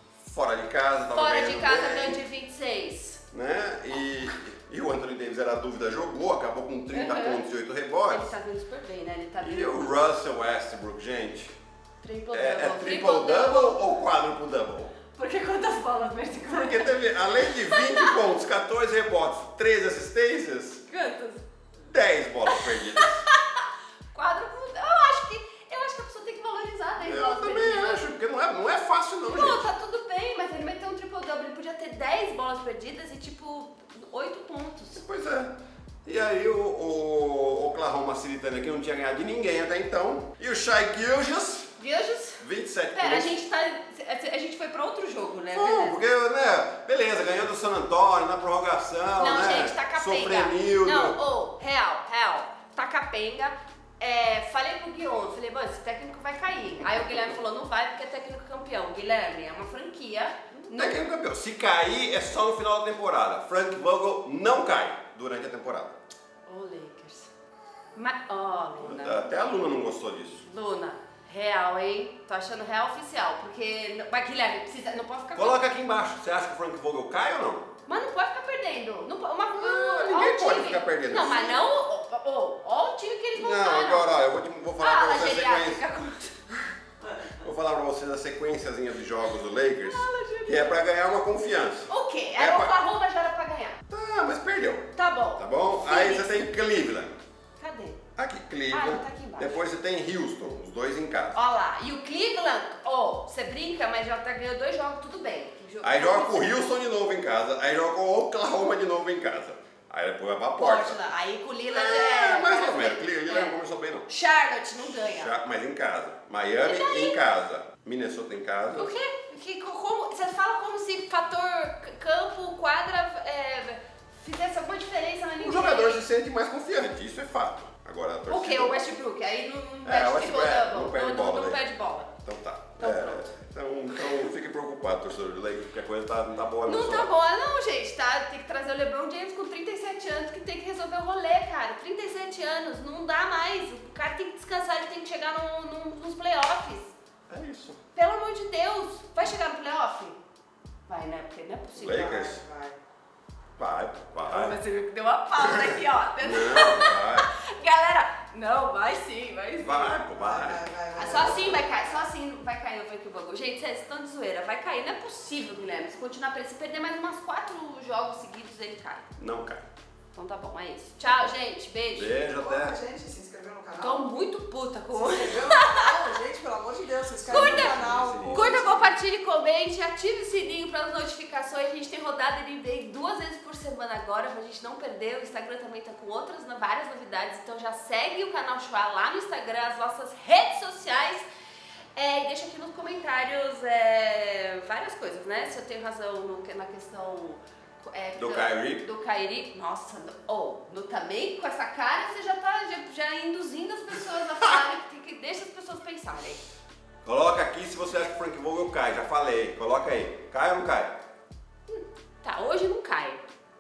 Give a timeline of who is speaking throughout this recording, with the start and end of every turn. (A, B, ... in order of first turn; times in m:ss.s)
0:00.2-0:02.2 A
0:01.1-0:03.2 B
0:03.3-0:08.3 A
0:06.9-0:07.4 B
0:08.1-0:10.0 B
0:09.4-0:11.5 A
0:12.0-0:13.8 B
0:12.3-0:15.0 A
0:15.1-0:18.2 B
0:16.4-0:20.8 A
0:20.8-0:21.4 B
0:21.8-0:23.2 A
0:22.5-0:28.0 B
0:27.0-0:29.6 A
0:29.2-0:35.0 B
0:34.9-0:35.5 A
0:36.0-0:41.7 A
0:41.8-0:46.0 B
0:42.4-0:43.3 A
0:45.5-0:51.2 A
0:49.2-1:01.0 B
1:00.7-1:06.0 A
1:06.4-1:07.3 B
1:07.9-1:09.7 B
1:08.8-1:10.4 A
1:10.4-1:15.6 B
1:15.3-1:17.7 A
1:17.8-1:24.1 B
1:19.5-1:21.6 A
1:23.3-1:25.8 A
1:24.8-1:26.4 B
1:27.3-1:32.7 A
1:29.8-1:30.8 B
1:31.9-1:33.8 B
1:33.9-1:37.2 A
1:34.9-1:36.3 B
1:37.6-1:38.0 B
1:38.2-1:41.4 A
1:38.7-1:39.6 B
1:41.3-1:46.6 B
1:45.8-1:51.0 A
1:50.6-1:53.5 B
1:51.7-1:54.1 A
1:54.0-1:55.3 B
1:54.8-1:58.9 A
1:56.6-1:57.2 B
1:58.7-2:06.0 B
2:05.4-2:08.9 A
2:08.3-2:12.1 B
2:09.8-2:11.6 A
2:12.2-2:17.1 A
2:12.8-2:13.3 B
2:16.6-2:26.9 B
2:27.3-2:27.8 A
2:27.9-2:30.2 B
2:30.9-2:32.2 B
2:31.8-2:32.4 A
2:31.8-2:32.8 C
2:33.6-2:34.6 A
2:34.2-2:40.0 B
2:35.4-2:37.3 A
2:39.6-2:41.4 A
2:40.1-2:42.0 C
2:40.9-2:49.1 B
2:49.2-2:49.6 A
2:50.1-2:52.2 B
2:51.9-2:52.8 A
2:52.3-2:54.1 C
2:53.8-2:56.1 B
2:54.9-2:58.9 C
2:57.2-3:11.2 B
2:57.3-2:58.9 A
3:12.0-3:26.4 B
3:18.2-3:18.8 A
3:27.0-3:31.0 A
3:31.7-3:33.2 B